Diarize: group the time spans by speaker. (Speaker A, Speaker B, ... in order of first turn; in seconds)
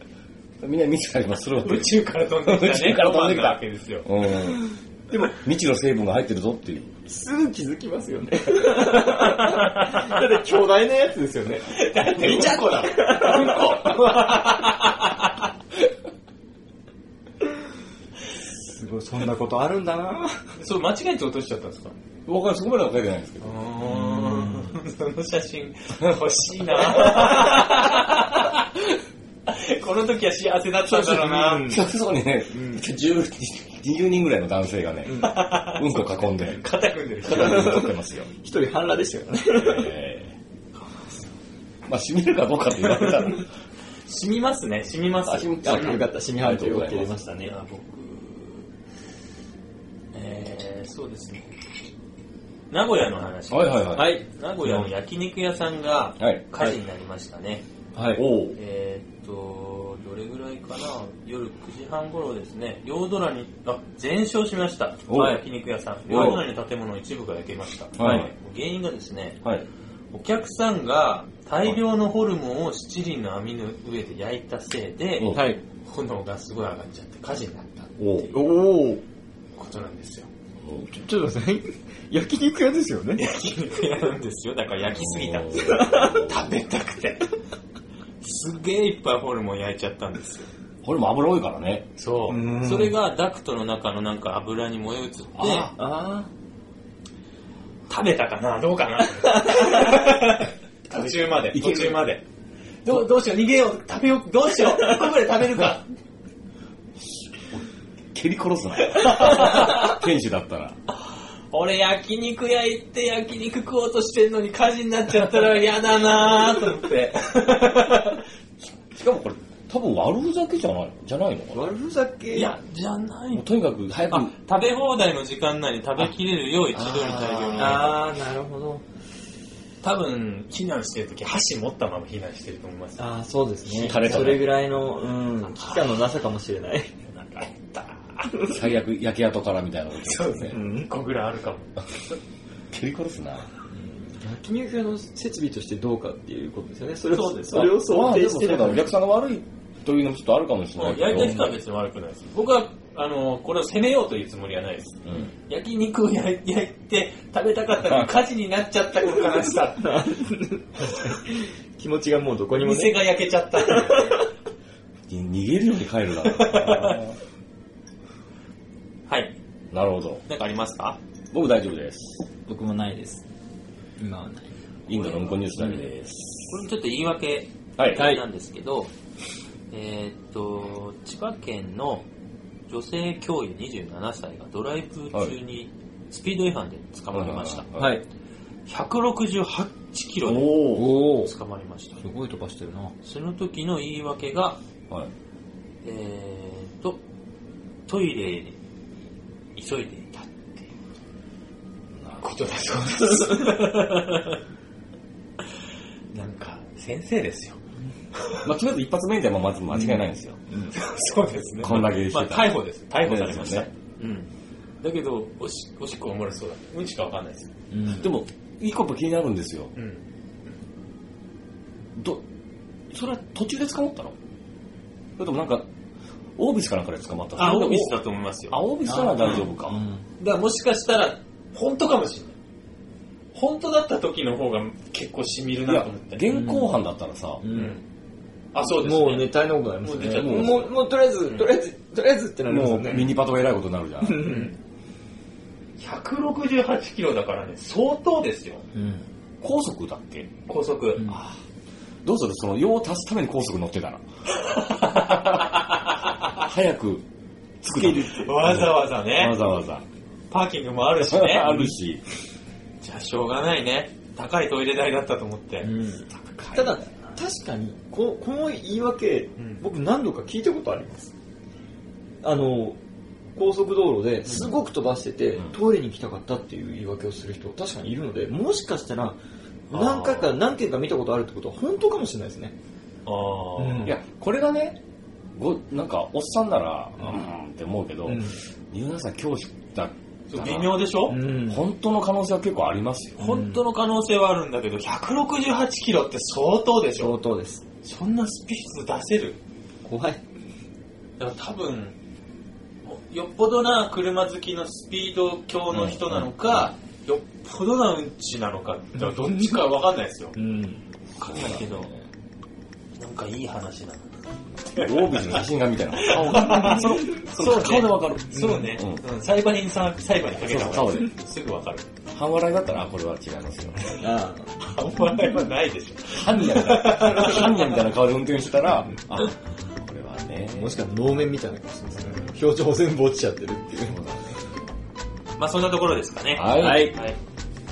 Speaker A: 0.6-7.0, 22.2-23.6, 31.6-36.6, 37.2-38.3, 39.5-40.4, 41.9-43.5, 45.3-47.1, 53.5-54.2, 56.2-56.5, 58.1-58.6, 65.1-65.4, 66.1-66.4, 68.0-68.3, 75.2-75.5, 78.0-78.3, 80.6-80.9, 84.9-86.4, 90.8-91.9, 95.4-95.7, 100.9-102.0, 107.5-110.8, 118.6-121.6, 123.3-124.3, 126.7-127.9, 133.7-134.6, 138.4-140.6, 142.7-143.5, 147.5-151.5, 155.0-155.3, 157.8-158.1, 165.1-167.2, 169.7-170.2, 171.3-172.2, 174.9-176.6, 177.8-178.2, 187.1-188.0, 190.2-191.0, 202.0-202.2, 208.4-210.4, 211.6-213.7, 217.9-219.7, 222.0-222.2, 222.9-224.2, 225.2-225.7, 226.4-229.8, 235.7-237.4, 240.2-240.7, 242.5-244.4, 249.4-250.3, 252.0-254.0, 255.0-255.6, 256.3-257.0, 257.6-259.9, 261.0-262.0, 283.9-284.8, 285.4-290.8, 291.5-293.2, 305.7-306.7, 311.2-312.0, 314.8-319.0, 320.4-321.1, 322.1-324.1, 326.1-330.8, 333.8-334.4, 336.3-337.0
Speaker B: 1.6-4.1, 11.7-15.3, 20.6-21.9, 23.4-28.7, 29.5-31.7, 35.2-37.8, 40.9-41.2, 42.8-43.4, 44.1-46.1, 47.4-48.7, 50.1-51.5, 52.7-57.7, 58.5-69.4, 70.1-78.3, 79.5-80.3, 83.2-87.3, 88.2-90.5, 92.0-95.7, 97.9-102.2, 102.8-105.9, 108.8-110.0, 110.9-118.2, 122.3-128.1, 129.8-133.0, 133.8-134.4, 135.6-136.0, 137.1-138.3, 140.0-141.9, 147.1-147.7, 150.8-160.1, 162.6-164.3, 166.2-167.0, 169.1-169.3, 170.3-171.0, 174.9-175.9, 176.5-178.9, 179.7-182.0, 182.7-187.7, 188.7-192.0, 193.0-194.6, 195.8-197.0, 197.9-198.6, 199.6-200.7, 202.2-204.4, 206.1-207.6, 208.2-208.4, 210.7-214.3, 214.8-217.5, 219.8-220.5, 227.4-229.5, 230.2-232.3, 233.3-236.3, 237.5-237.8, 238.5-240.7, 244.2-244.5, 245.8-248.7, 250.5-251.2, 254.5-256.3, 258.1-259.4, 260.3-261.7, 262.8-266.8, 274.3-274.5, 279.7-280.3, 283.1-283.9, 290.3-291.2, 293.2-297.2, 297.8-299.4, 301.2-301.9, 302.9-310.4, 311.2-311.9, 313.0-321.9, 324.6-327.8, 335.4-337.2
Speaker C: 7.1-14.0, 18.6-20.4, 23.9-24.8, 30.9-31.8, 32.5-32.8, 35.1-35.3, 37.3-39.9, 45.5-47.5, 54.0-54.9, 58.0-58.2, 68.0-68.2, 75.3-75.6, 78.3-79.0, 80.9-83.3, 85.7-86.3, 92.3-93.0, 95.5-96.3, 121.5-122.5, 127.5-128.8, 133.0-136.9, 140.5-140.9, 143.7-148.9, 159.8-163.0, 172.5-173.2, 174.0-174.5, 178.0-178.2, 187.8-188.0, 190.7-191.3, 192.0-192.9, 217.7-218.1, 228.9-230.1, 236.3-236.8, 237.4-237.8, 238.8-243.1, 244.0-244.5, 248.8-249.1, 251.0-251.2, 257.7-258.5, 265.6-271.1, 272.2-272.8, 273.4-279.2, 279.7-282.5, 283.6-283.9, 288.1-288.4, 291.1-291.6, 293.2-293.6, 297.0-297.6, 299.8-300.2, 310.4-310.8, 324.0-324.5, 330.5-334.0, 336.5-337.0